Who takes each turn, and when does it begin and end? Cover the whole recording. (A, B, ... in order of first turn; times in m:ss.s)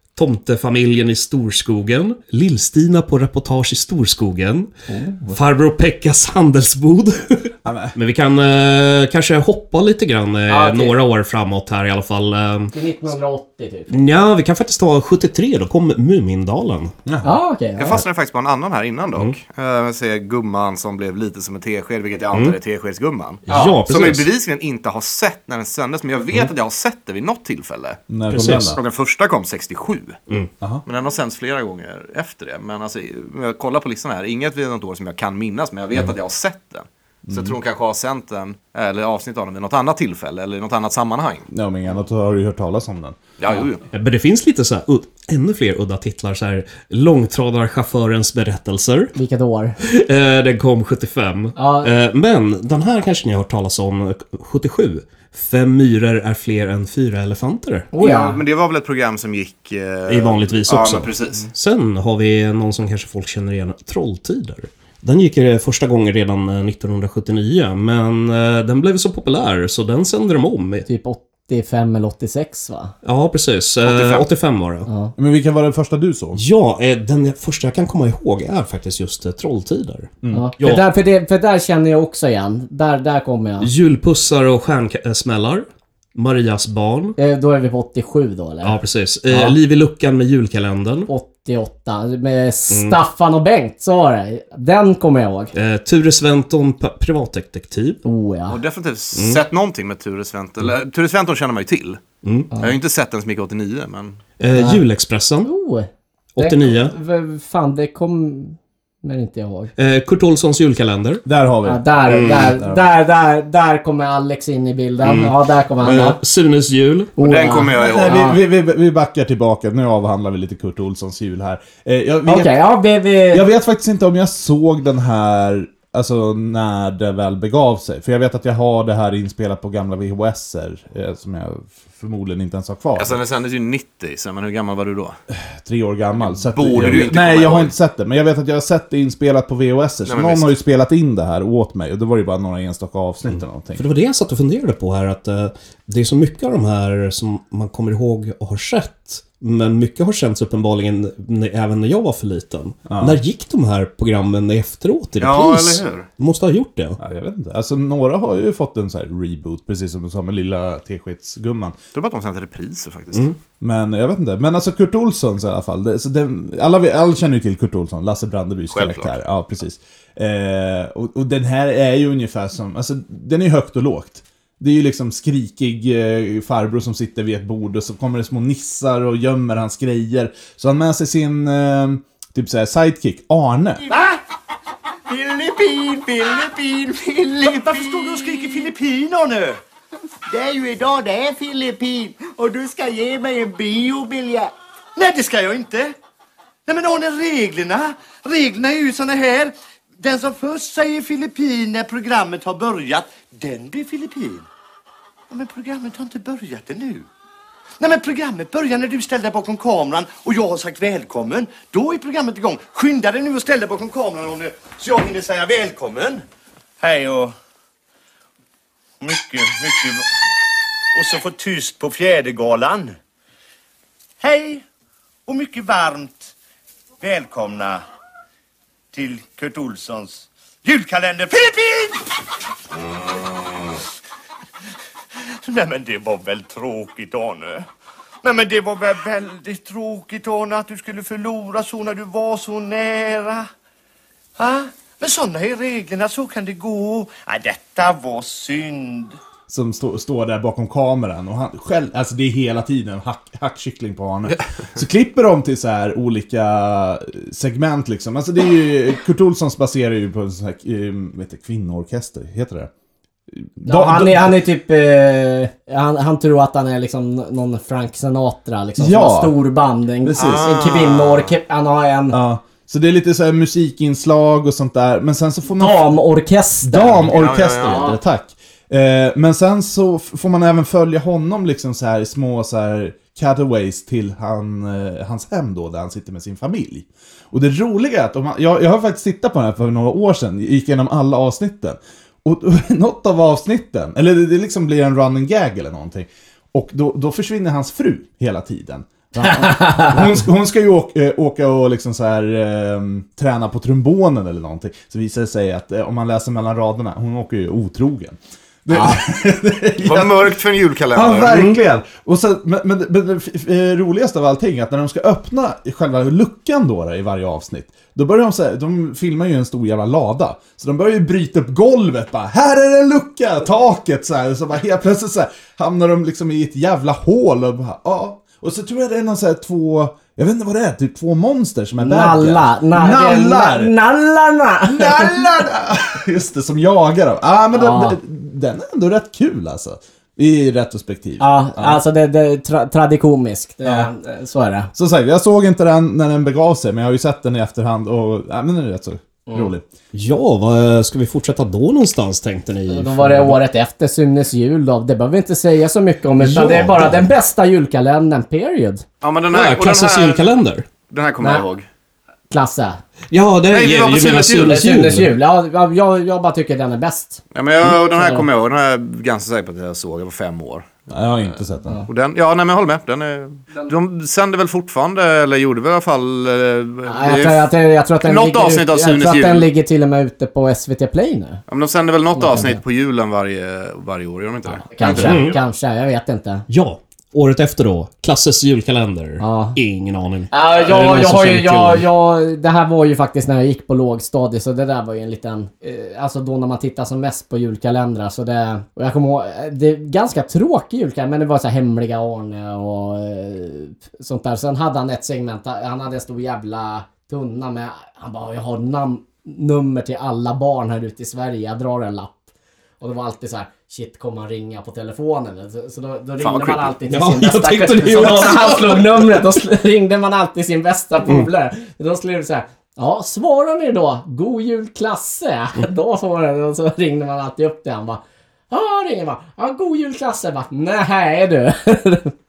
0:00.2-0:04.7 A
0:04.9-0:05.3 B
0:05.3-0:12.7 A
0:07.6-0:07.9 C
0:10.5-0:11.0 B
0:12.7-0:13.9 B
0:13.9-0:16.9 A
0:17.0-0:17.4 C
0:17.2-0:18.0 B
0:17.8-0:28.0 D
0:23.5-0:24.3 A
0:23.5-0:23.8 B
0:28.1-0:28.8 C
0:28.3-0:28.8 A
0:28.7-0:30.2 D
0:30.8-0:41.4 D
0:37.3-0:37.6 C
0:41.5-0:43.2 C
0:43.4-0:43.8 D
0:43.9-0:49.1 A
0:49.1-0:49.8 B
0:49.8-0:57.9 A
0:51.6-0:51.9 B
0:57.9-0:58.4 B
0:58.0-1:01.5 D
1:00.1-1:10.8 A
1:10.8-1:12.9 B
1:13.0-1:14.9 A
1:13.8-1:14.2 D
1:14.9-1:15.1 B
1:15.2-1:16.4 C
1:16.3-1:20.8 A
1:20.2-1:20.5 C
1:20.3-1:23.7 B
1:23.6-1:27.2 A
1:27.2-1:29.6 B
1:28.6-1:31.1 A
1:31.1-1:35.5 B
1:32.7-1:33.0 A
1:35.5-1:38.0 A
1:38.0-1:38.6 B
1:38.5-1:42.0 D
1:39.1-1:39.4 A
1:42.2-1:42.5 A
1:42.6-1:44.2 D
1:44.4-1:45.5 A
1:44.5-1:44.8 B
1:45.4-1:49.7 B
1:46.4-1:46.9 A
1:49.8-1:51.2 A
1:51.2-1:52.8 C
1:51.6-1:56.2 B
1:52.0-1:52.5 A
1:55.0-1:57.1 A
1:57.2-1:58.4 B
1:57.2-1:58.3 D
1:57.8-2:02.6 C
2:02.2-2:03.4 B
2:03.3-2:13.2 C
2:13.0-2:15.2 D
2:15.3-2:23.8 C
2:16.3-2:17.7 D
2:20.0-2:20.5 D
2:23.7-2:37.0 A
2:32.9-2:33.2 C
2:35.2-2:36.1 D
2:37.0-2:41.8 C
2:41.9-2:43.3 D
2:43.6-3:03.8 C
2:48.7-2:49.2 D
3:03.8-3:04.2 E
3:05.1-3:09.6 E
3:10.3-3:15.9 E
3:16.6-3:24.4 E
3:25.3-3:27.0 E
3:27.8-3:36.2 E
3:36.8-3:37.3 E
3:39.0-3:40.0 E
3:40.9-3:43.0 E
3:44.2-3:44.6 E
3:45.3-3:46.3 E
3:47.0-3:47.8 E
3:48.9-3:52.0 E
3:55.4-3:57.7 E
3:58.2-4:03.5 E
4:04.4-4:09.1 E
4:09.5-4:22.7 C
4:23.3-4:24.4 C
4:23.6-4:32.2 B
4:28.8-4:29.3 C
4:30.0-4:30.6 C
4:30.2-4:31.3 D
4:32.1-4:35.9 C
4:35.5-4:37.1 B
4:36.6-5:10.4 C
4:37.1-4:37.9 D
4:37.6-4:38.0 B
4:59.2-5:00.0 B
5:08.7-5:09.0 B
5:09.8-5:11.5 D
5:10.9-5:33.7 C
5:31.8-5:35.3 B
5:34.6-5:41.8 C
5:37.5-5:38.0 B
5:41.2-5:44.7 B
5:43.6-5:43.9 C
5:44.7-5:49.6 C
5:49.9-5:53.4 A
5:52.7-5:58.8 B
5:56.2-5:57.1 A
5:59.0-6:00.2 D
5:59.3-6:00.7 A
6:00.9-6:01.6 D
6:02.3-6:02.8 B
6:03.1-6:05.1 A
6:03.5-6:04.6 D
6:04.4-6:08.2 B
6:07.3-6:10.9 D
6:10.9-6:11.8 C
6:11.9-6:19.5 D
6:16.9-6:21.4 B
6:21.5-6:25.4 D
6:22.1-6:22.6 B
6:24.5-6:26.4 B
6:24.9-6:25.4 A
6:26.5-6:31.8 A
6:29.2-6:29.6 B
6:30.3-6:52.2 B
6:52.8-7:12.1 B
6:56.2-6:56.7 D
6:56.9-6:59.3 A
7:01.0-7:01.3 A